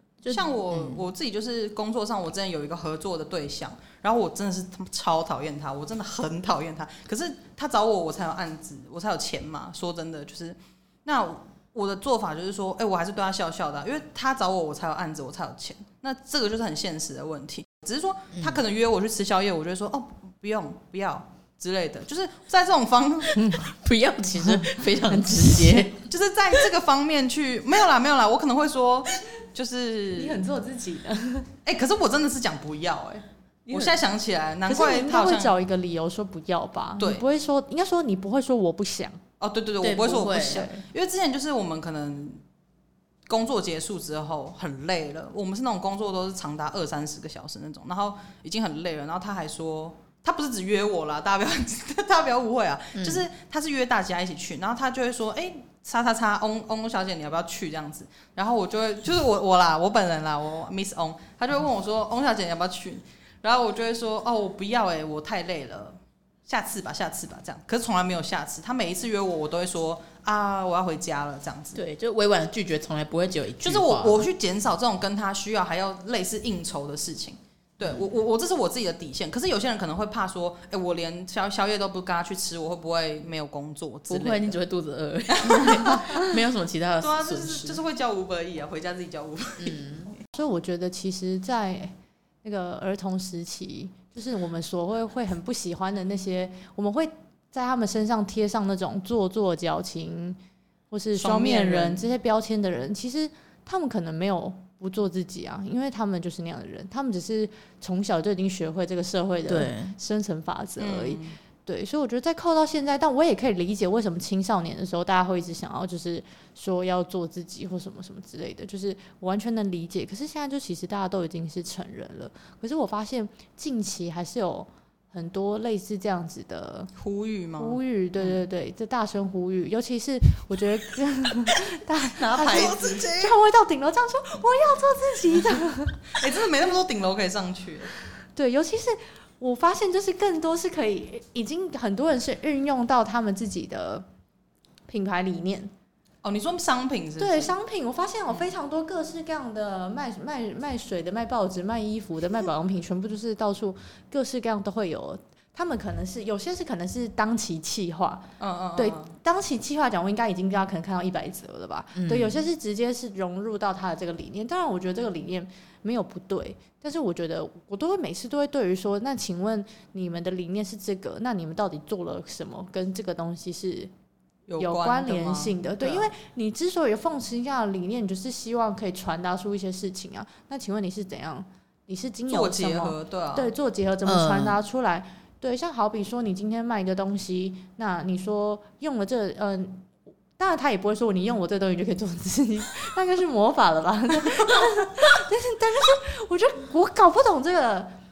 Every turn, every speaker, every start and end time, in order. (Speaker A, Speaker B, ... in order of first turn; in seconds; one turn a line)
Speaker A: 0.2-1.0
Speaker B: 0.3-23.4
Speaker A: 18.4-18.6
Speaker C: 23.4-23.6
Speaker A: 23.5-26.1
Speaker C: 24.4-25.9
Speaker B: 26.1-30.4
Speaker C: 30.1-31.5
Speaker B: 31.6-35.5
Speaker A: 33.7-34.0
Speaker C: 34.7-39.2
Speaker B: 37.0-37.2
Speaker B: 39.4-42.4
Speaker A: 39.8-40.6
Speaker C: 40.4-40.8
Speaker B: 43.3-71.8
Speaker A: 53.0-53.2
Speaker A: 71.7-74.3
Speaker B: 73.6-84.6
Speaker A: 84.1-87.8
Speaker B: 85.3-86.2
Speaker B: 87.0-89.8
Speaker A: 89.6-90.1
Speaker C: 90.3-100.4
Speaker C: 100.9-126.9
Speaker B: 101.2-102.1
Speaker A: 109.5-109.9
Speaker B: 110.8-111.4
Speaker B: 127.0-128.4
Speaker C: 127.6-136.2
Speaker B: 132.2-133.4
Speaker B: 136.1-137.9
Speaker C: 138.3-144.0
Speaker C: 144.9-145.7
Speaker B: 146.2-147.5
Speaker C: 147.2-173.9
Speaker B: 158.4-159.1
Speaker A: 161.9-162.4
Speaker B: 174.5-176.1
Speaker C: 174.6-197.9
Speaker B: 182.3-183.5
Speaker A: 184.1-184.6